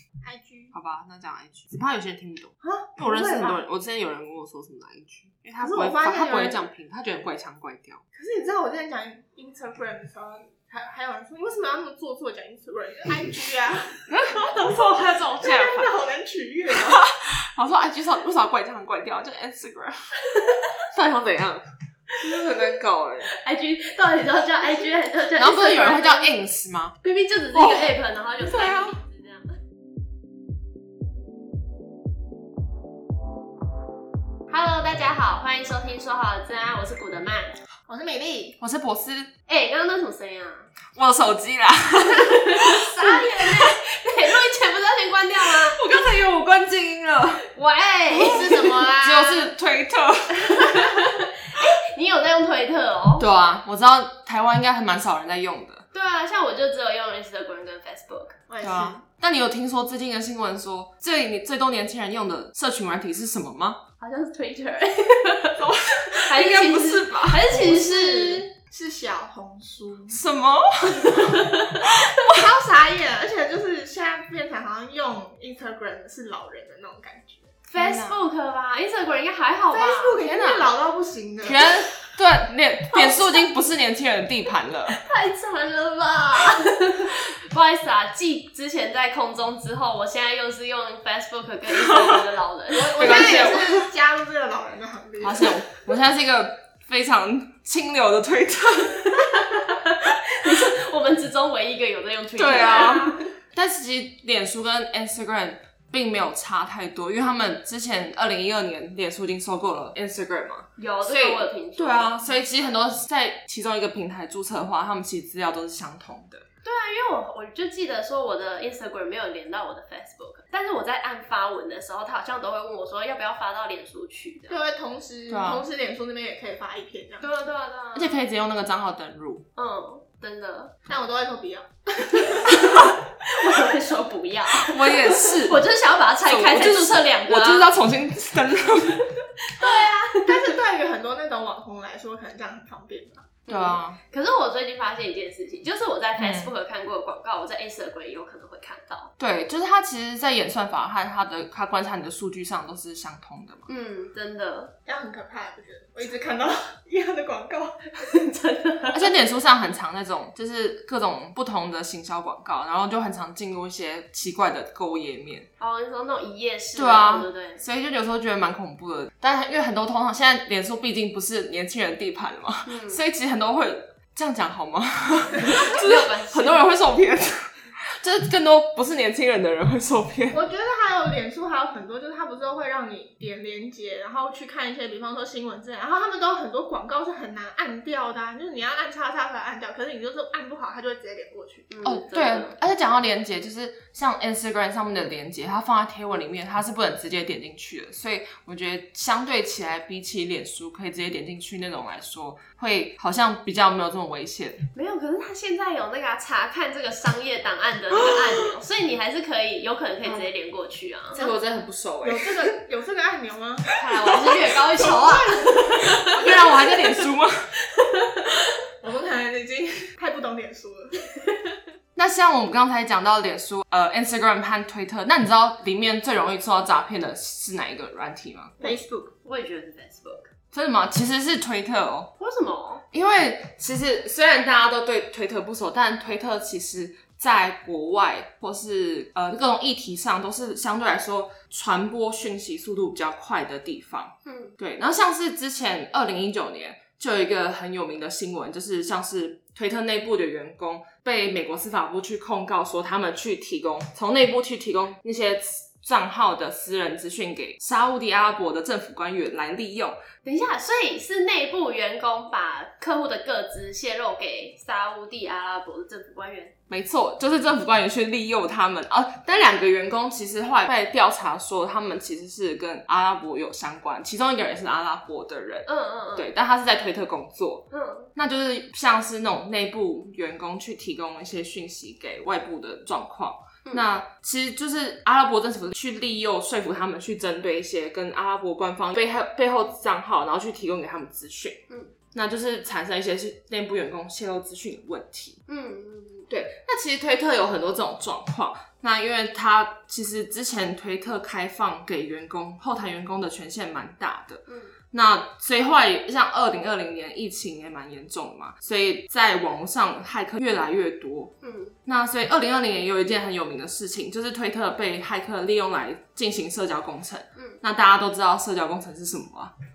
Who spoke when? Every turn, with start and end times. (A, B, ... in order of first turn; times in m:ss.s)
0:00.2-0:00.7 A
0:00.7-0:08.0 B
0:02.6-0:03.6 A
0:05.6-0:06.6 A
0:08.1-0:14.9 A
0:14.1-0:15.9 B
0:15.4-0:17.0 A
0:16.9-0:20.2 B
0:20.3-0:20.7 C
0:20.8-0:21.6 B
0:22.2-0:23.3 B
0:23.2-0:26.3 C
0:25.3-0:26.9 B
0:27.0-0:29.6 C
0:27.5-0:29.0 B
0:34.5-0:37.6 C
0:37.9-0:38.6 A
0:38.6-0:39.3 B
0:39.5-0:40.7 C
0:40.9-0:43.6 B
0:42.2-0:45.8 C
0:45.4-0:47.4 B
0:47.4-0:49.0 C
0:48.1-0:51.0 B
0:48.1-0:49.5 A
0:50.4-0:53.2 C
0:53.2-0:55.8 B
0:55.9-0:58.4 C
0:58.5-0:59.0 A
0:58.6-1:03.8 B
1:04.0-1:08.5 C
1:05.6-1:08.5 B
1:08.7-1:10.2 A
1:10.1-1:11.3 B
1:11.0-1:12.3 C
1:12.2-1:17.5 A
1:17.7-1:18.2 B
1:17.7-1:20.2 C
1:19.7-1:21.6 A
1:20.2-1:20.7 B
1:21.4-1:25.0 B
1:22.9-1:23.4 C
1:24.9-1:33.5 C
1:32.7-1:35.6 A
1:33.0-1:33.9 B
1:35.2-1:39.2 B
1:39.3-1:43.2 C
1:42.4-1:56.4 B
1:42.5-1:43.2 A
1:50.8-1:52.2 C
1:56.6-2:04.6 C
2:04.5-2:07.3 A
2:05.3-2:05.6 B
2:07.2-2:08.2 C
2:07.9-2:09.4 B
2:09.6-2:10.7 C
2:10.9-2:12.5 A
2:12.1-2:17.7 C
2:14.5-2:15.6 B
2:16.2-2:19.0 B
2:18.9-2:20.5 C
2:19.6-2:23.3 A
2:23.4-2:29.1 C
2:23.5-2:24.0 B
2:26.2-2:26.5 B
2:29.2-2:33.7 B
2:33.7-2:34.7 C
2:34.8-2:38.0 A
2:38.0-2:39.1 C
2:38.9-2:45.5 B
2:45.6-2:47.6 C
2:46.8-3:00.4 B
2:52.6-2:53.0 C
2:55.3-2:56.7 C
3:00.3-3:11.7 A
3:11.7-3:12.6 C
3:11.8-3:24.6 B
3:24.7-3:31.2 C
3:27.9-3:28.5 B
3:30.0-3:30.3 B
3:31.1-3:32.4 B
3:32.0-3:33.7 A
3:33.8-3:37.0 C
3:33.9-3:34.6 B
3:34.8-3:36.3 A
3:36.1-3:37.5 B
3:37.7-3:38.5 C
3:38.8-3:41.0 A
3:42.0-3:48.6 B
3:48.6-3:49.1 A
3:48.6-3:50.3 C
3:50.5-3:52.1 B
3:52.2-3:52.8 C
3:52.9-4:20.0 B
4:04.2-4:04.5 C
4:20.2-4:26.5 C
4:26.7-4:37.6 B
4:35.6-4:36.3 C
4:37.7-4:38.1 C
4:38.2-4:51.6 B
4:52.1-4:55.4 B
4:55.5-4:56.3 C
4:56.3-5:11.3 B
5:04.5-5:04.7 C
5:11.4-5:11.8 C
5:11.8-5:19.5 B
5:17.3-5:17.6 C